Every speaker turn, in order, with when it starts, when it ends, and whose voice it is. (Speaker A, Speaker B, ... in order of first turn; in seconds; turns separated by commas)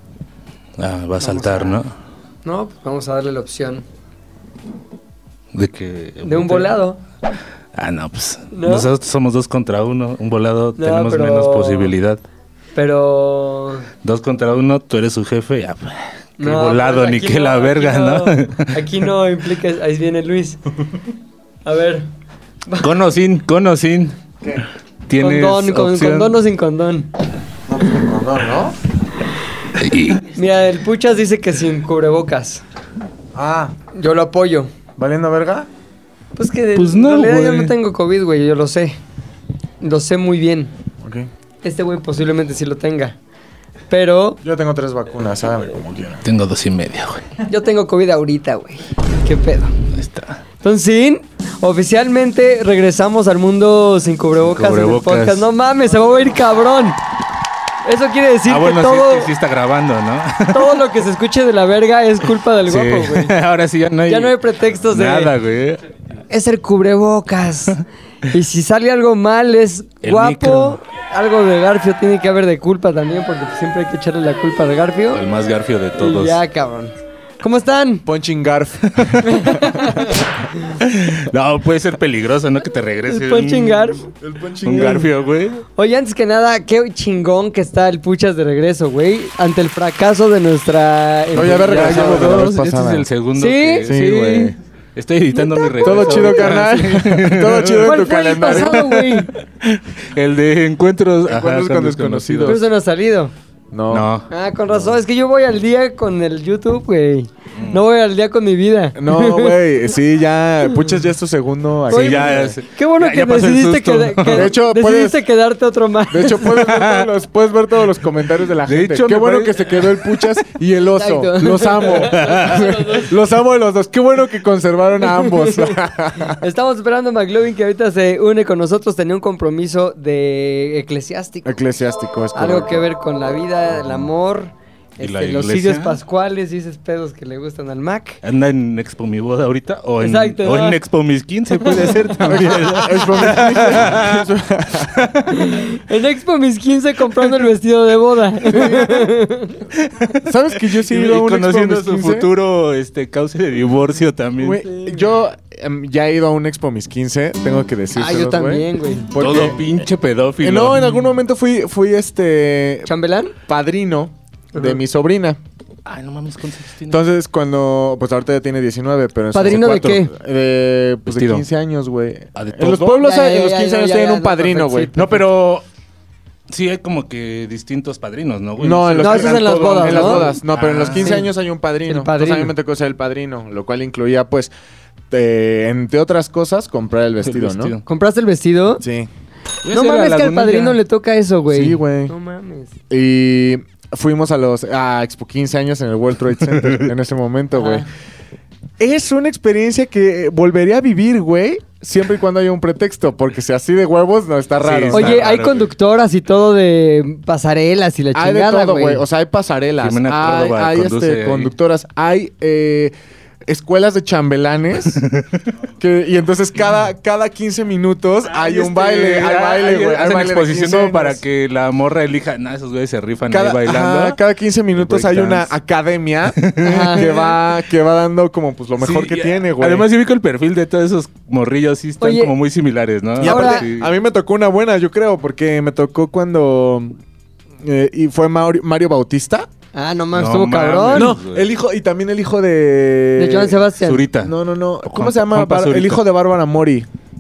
Speaker A: 0.8-1.9, Speaker B: 1.2-1.8, Speaker B: 2.5-3.8, Speaker A: 5.5-6.8, Speaker B: 6.2-7.0, Speaker A: 7.7-12.2, Speaker B: 8.5-8.9, Speaker B: 10.8-11.9, Speaker B: 12.8-13.9, Speaker A: 14.0-19.1, Speaker B: 16.4-20.6, Speaker B: 21.6-22.1, Speaker A: 22.8-24.1, Speaker A: 25.1-26.4, Speaker B: 25.2-27.1, Speaker C: 27.7-28.8, Speaker A: 29.8-30.2, Speaker B: 30.2-32.6, Speaker C: 33.4-33.7, Speaker B: 33.9-34.7, Speaker C: 35.0-35.7, Speaker B: 36.4-39.0, Speaker A: 36.8-37.7, Speaker B: 39.8-40.7, Speaker C: 41.0-41.3, Speaker B: 41.6-43.2, Speaker B: 43.9-44.4, Speaker C: 44.4-46.2, Speaker A: 46.2-47.2, Speaker B: 47.5-49.7, Speaker A: 50.0-50.4, Speaker B: 50.6-57.0, Speaker A: 54.5-55.5, Speaker B: 57.9-59.3, Speaker A: 58.5-60.9, Speaker B: 60.5-63.3, Speaker A: 62.7-65.8, Speaker B: 64.1-65.3, Speaker B: 66.3-67.8, Speaker B: 68.3-75.2, Speaker A: 70.0-70.8, Speaker A: 75.1-76.4, Speaker B: 76.0-78.0, Speaker C: 78.1-79.7, Speaker A: 79.0-79.2, Speaker B: 79.2-80.3, Speaker A: 80.8-84.0, Speaker B: 83.1-84.0, Speaker C: 84.2-85.1, Speaker A: 84.6-85.6, Speaker B: 85.8-92.4, Speaker C: 91.3-93.1, Speaker A: 91.4-102.6, Speaker B: 93.4-93.9, Speaker C: 93.9-94.6, Speaker B: 95.3-96.9, Speaker C: 95.8-98.9, Speaker B: 97.8-99.3, Speaker C: 101.3-102.6, Speaker B: 102.5-103.3, Speaker C: 103.7-104.1, Speaker A: 103.9-104.9, Speaker B: 104.3-109.6, Speaker A: 107.6-107.8, Speaker C: 109.0-112.5, Speaker A: 111.9-114.5, Speaker B: 111.9-116.9, Speaker C: 114.3-115.2, Speaker C: 116.1-126.4, Speaker A: 116.5-117.1, Speaker A: 118.7-120.2, Speaker B: 120.9-123.1, Speaker A: 122.0-122.6, Speaker B: 125.0-131.6, Speaker C: 131.4-132.8, Speaker B: 132.3-138.2, Speaker A: 135.0-136.0, Speaker A: 138.2-144.3, Speaker B: 140.0-140.8, Speaker B: 141.6-143.1, Speaker C: 142.3-145.1, Speaker A: 145.0-145.3, Speaker B: 145.3-149.6, Speaker C: 148.5-149.1, Speaker A: 149.8-154.6, Speaker C: 150.2-152.3, Speaker C: 154.4-159.8, Speaker B: 154.6-155.0, Speaker B: 157.9-159.1, Speaker A: 159.2-161.1, Speaker C: 160.4-162.9, Speaker B: 162.9-163.3, Speaker C: 163.5-165.4, Speaker A: 165.9-167.0, Speaker C: 166.9-175.1, Speaker B: 169.3-170.1, Speaker A: 169.5-169.8, Speaker A: 171.1-171.4, Speaker A: 172.4-173.0, Speaker B: 173.0-175.2, Speaker A: 175.0-175.7, Speaker A: 176.5-181.1, Speaker C: 178.6-184.5, Speaker B: 179.0-180.3, Speaker B: 181.0-181.3, Speaker B: 181.9-182.5, Speaker C: 185.1-187.7, Speaker A: 187.2-187.8, Speaker B: 187.9-188.8, Speaker C: 188.8-189.1, Speaker A: 189.7-190.8, Speaker B: 189.7-192.7, Speaker C: 191.5-192.1, Speaker C: 192.9-197.9, Speaker A: 196.6-196.8, Speaker B: 197.6-197.8, Speaker C: 198.8-205.2, Speaker A: 204.6-205.7, Speaker B: 204.9-209.0, Speaker C: 208.1-212.9, Speaker A: 209.8-211.5, Speaker C: 213.5-215.0, Speaker A: 215.0-215.4, Speaker C: 215.8-221.2, Speaker A: 218.3-224.2, Speaker C: 223.3-229.9, Speaker A: 224.8-225.5, Speaker A: 226.4-227.2, Speaker B: 226.6-227.3, Speaker A: 228.8-233.9, Speaker B: 232.0-232.3, Speaker C: 233.2-237.0, Speaker B: 233.2-233.6, Speaker C: 237.6-239.5, Speaker B: 239.8-241.1, Speaker A: 240.1-241.5, Speaker C: 240.9-243.6, Speaker B: 243.2-244.1, Speaker A: 243.8-246.0, Speaker C: 244.1-246.9